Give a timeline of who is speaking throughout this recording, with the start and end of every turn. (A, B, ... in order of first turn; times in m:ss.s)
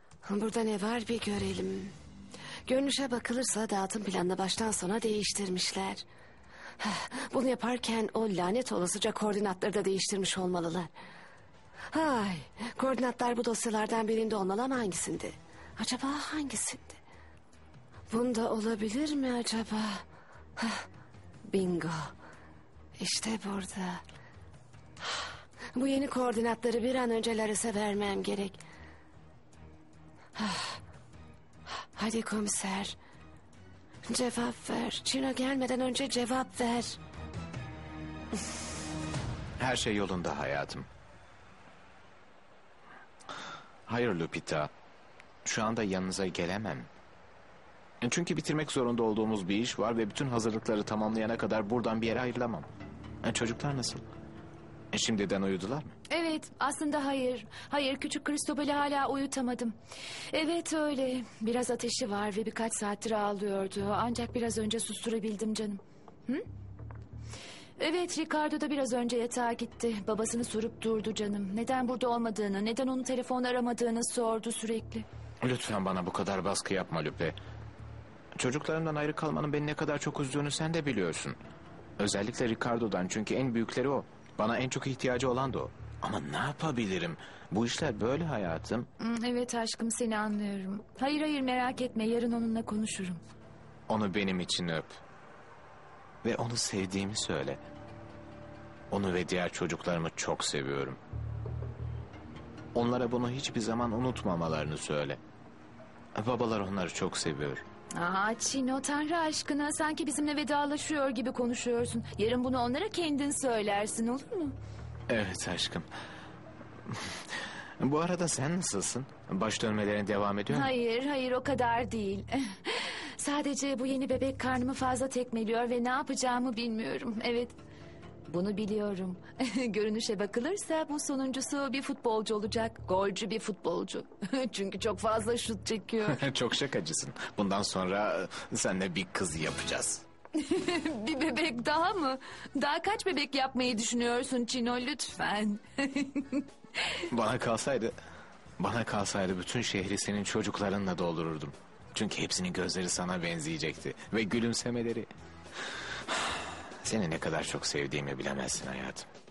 0:00.2-0:01.9 A
0:02.7-0:06.0 A
0:06.8-0:10.9 A
0:11.9-0:17.0 A
0:18.1-0:20.0 A
0:20.6-0:20.8 A
0:21.5-0:22.1 A
0:23.0-0:24.0 A
0:25.7-0:28.6 A
0:30.4-0:30.8 A
0:31.8-0:33.0 A
0:34.1-0:37.0 A
0:39.6-0:40.9 B
0:43.9-0:44.7 B
0:45.4-0:46.9 B
0:48.0-0:52.7 B
0:53.2-0:54.0 B
0:54.9-0:55.9 B
0:56.1-0:59.8 C
1:00.3-1:06.4 C
1:07.8-1:15.1 C
1:15.4-1:17.4 B
1:18.4-1:21.4 B
1:22.0-1:28.9 B
1:29.0-1:33.2 C
1:33.9-1:35.0 B
1:36.2-1:37.6 B
1:38.9-1:41.0 B
1:42.7-1:45.2 B
1:46.2-1:47.6 B
1:48.0-1:54.5 C
1:55.1-1:55.9 B
1:57.8-2:00.7 B
2:00.5-2:07.5 C
2:08.3-2:16.2 C
2:16.1-2:20.0 B
2:20.4-2:26.4 C
2:27.1-2:27.9 B
2:28.6-2:35.1 B
2:36.8-2:39.1 B